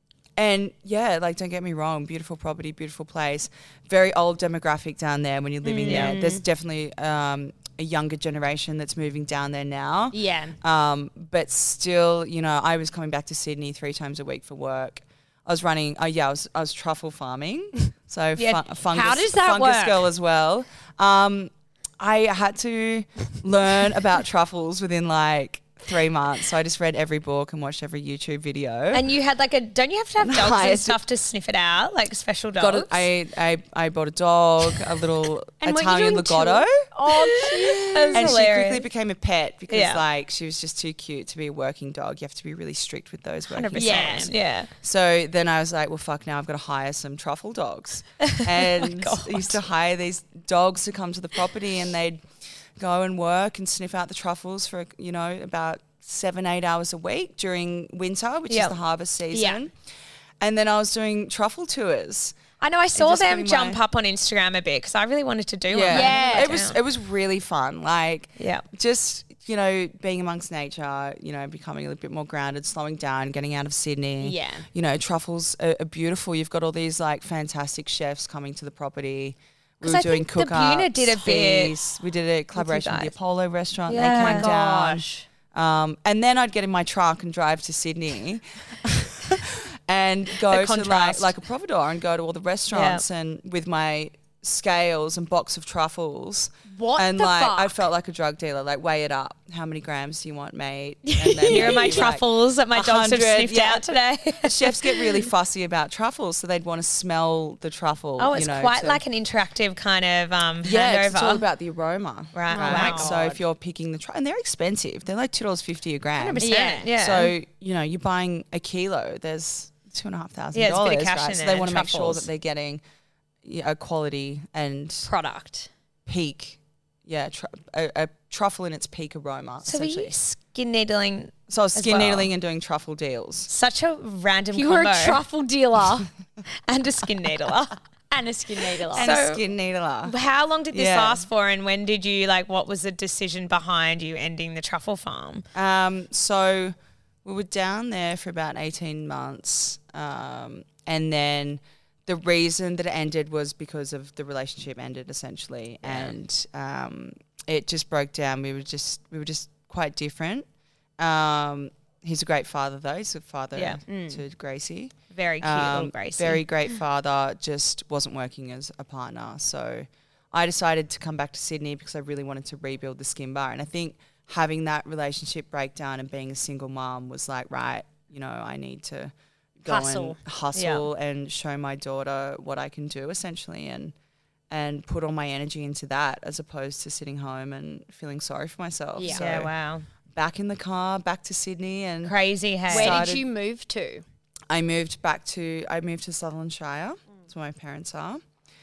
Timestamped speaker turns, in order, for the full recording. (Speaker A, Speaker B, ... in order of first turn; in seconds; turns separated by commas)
Speaker A: 0.3-29.0, Speaker B: 5.6-6.4, Speaker C: 5.8-6.2, Speaker B: 10.1-10.6, Speaker C: 18.4-18.6, Speaker B: 18.9-20.1, Speaker C: 28.9-33.0, Speaker A: 30.2-31.0, Speaker A: 32.6-52.2, Speaker B: 35.6-38.4, Speaker C: 37.1-38.8, Speaker C: 39.7-40.0, Speaker C: 43.5-44.7, Speaker B: 43.8-44.3, Speaker C: 48.2-49.6, Speaker A: 52.8-59.7, Speaker C: 58.5-58.7, Speaker B: 59.3-59.6, Speaker A: 60.4-62.4, Speaker C: 62.6-66.8, Speaker A: 62.9-63.8, Speaker A: 65.7-103.8, Speaker B: 65.9-66.5, Speaker C: 68.4-68.6, Speaker B: 74.2-74.7, Speaker C: 79.8-81.8, Speaker C: 82.5-83.1, Speaker C: 83.9-84.5, Speaker B: 83.9-85.3, Speaker C: 90.5-91.3, Speaker C: 92.7-93.0, Speaker B: 96.7-97.8, Speaker B: 101.0-102.1, Speaker C: 101.5-105.3, Speaker A: 104.4-109.0, Speaker C: 108.2-111.4, Speaker A: 110.6-122.8, Speaker C: 112.3-113.2, Speaker B: 112.5-113.4, Speaker B: 116.2-116.9, Speaker C: 116.3-117.3, Speaker C: 120.5-122.3, Speaker A: 123.4-125.1, Speaker B: 125.0-125.7, Speaker A: 126.0-130.1, Speaker C: 129.6-132.3, Speaker A: 131.5-133.5, Speaker C: 133.5-135.2, Speaker B: 134.5-136.1, Speaker C: 136.7-137.8, Speaker B: 138.1-139.1, Speaker C: 138.9-139.4, Speaker A: 138.9-140.2, Speaker C: 140.0-145.4, Speaker A: 140.7-141.3, Speaker A: 145.5-160.5, Speaker C: 155.8-156.1, Speaker A: 161.0-183.9, Speaker C: 163.5-163.8, Speaker B: 163.8-164.2, Speaker C: 165.1-166.4, Speaker B: 179.7-180.2, Speaker C: 180.5-180.9, Speaker A: 184.5-189.5, Speaker B: 188.9-189.3, Speaker C: 189.1-189.8, Speaker A: 190.1-192.1, Speaker C: 192.0-193.0, Speaker A: 192.7-193.2, Speaker B: 192.7-194.0, Speaker A: 194.5-198.2